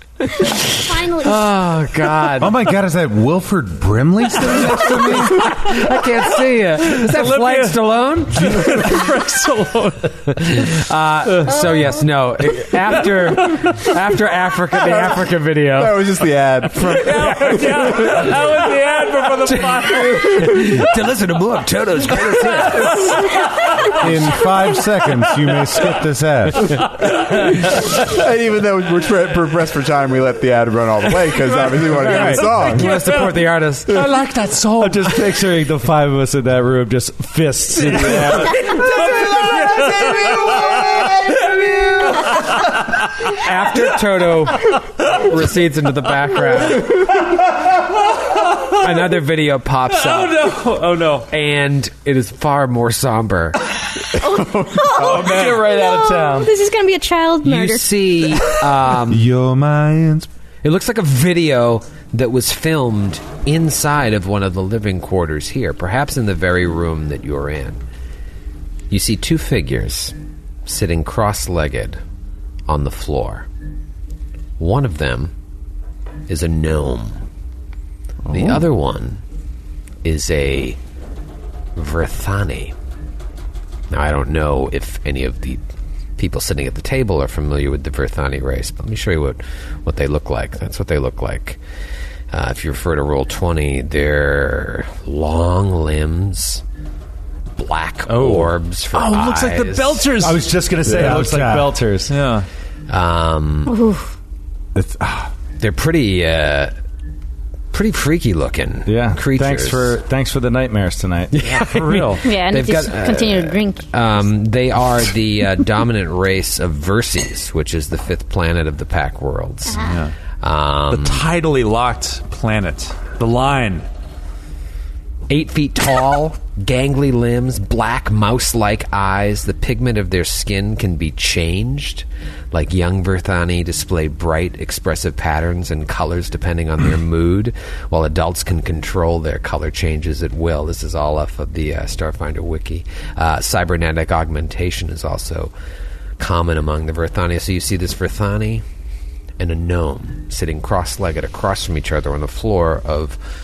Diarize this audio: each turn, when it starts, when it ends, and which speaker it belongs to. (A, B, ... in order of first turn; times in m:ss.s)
0:00.3-0:01.4 A
0:01.2-0:02.6 B
0:02.4-0:05.4 C
0:04.4-0:09.1 B
0:05.2-0:05.5 D
0:06.8-0:10.7 D
0:10.3-0:16.1 B
0:11.3-0:11.9 D
0:12.6-0:13.7 D
0:15.7-0:17.8 E
0:16.8-0:20.9 D
0:17.0-0:18.4 B
0:19.4-0:23.4 B
0:22.2-0:24.2 D
0:24.0-0:26.8 C
0:26.7-0:27.5 D
0:27.6-0:33.0 E
0:31.5-0:35.3 D
0:32.1-0:34.0 B
0:34.7-0:40.6 F
0:37.9-0:42.7 D
0:43.2-0:47.2 B
0:48.7-0:50.6 B
0:49.9-0:51.3 D
0:51.3-0:53.6 B
0:54.2-0:58.2 A
0:54.9-0:56.5 F
0:55.1-0:55.6 D
0:57.4-0:59.2 B
0:59.1-1:00.3 C
1:00.6-1:07.8 B
1:08.9-1:10.1 B
1:10.6-1:12.0 B
1:12.7-1:13.5 B
1:14.6-1:15.3 B
1:16.3-1:17.2 B
1:18.3-1:18.6 E
1:18.3-1:19.2 B
1:20.0-1:20.8 B
1:21.8-1:22.7 B
1:23.9-1:25.6 B
1:26.2-1:31.6 B
1:32.3-1:36.6 B
1:37.6-1:40.1 B
1:38.1-1:41.2 D
1:40.2-1:42.2 F
1:40.8-1:41.8 C
1:42.1-1:42.5 D
1:42.9-1:43.7 B
1:43.7-1:44.1 A
1:44.7-1:45.3 C
1:45.6-1:46.7 B
1:47.7-1:50.0 B
1:48.9-1:51.3 F
1:51.3-1:59.9 B
1:51.5-1:52.2 D
1:52.2-1:53.9 A
1:59.8-2:00.1 D
2:00.4-2:01.2 B
2:00.9-2:03.9 D
2:05.3-2:25.5 B
2:26.2-2:28.6 B
2:29.4-2:33.2 B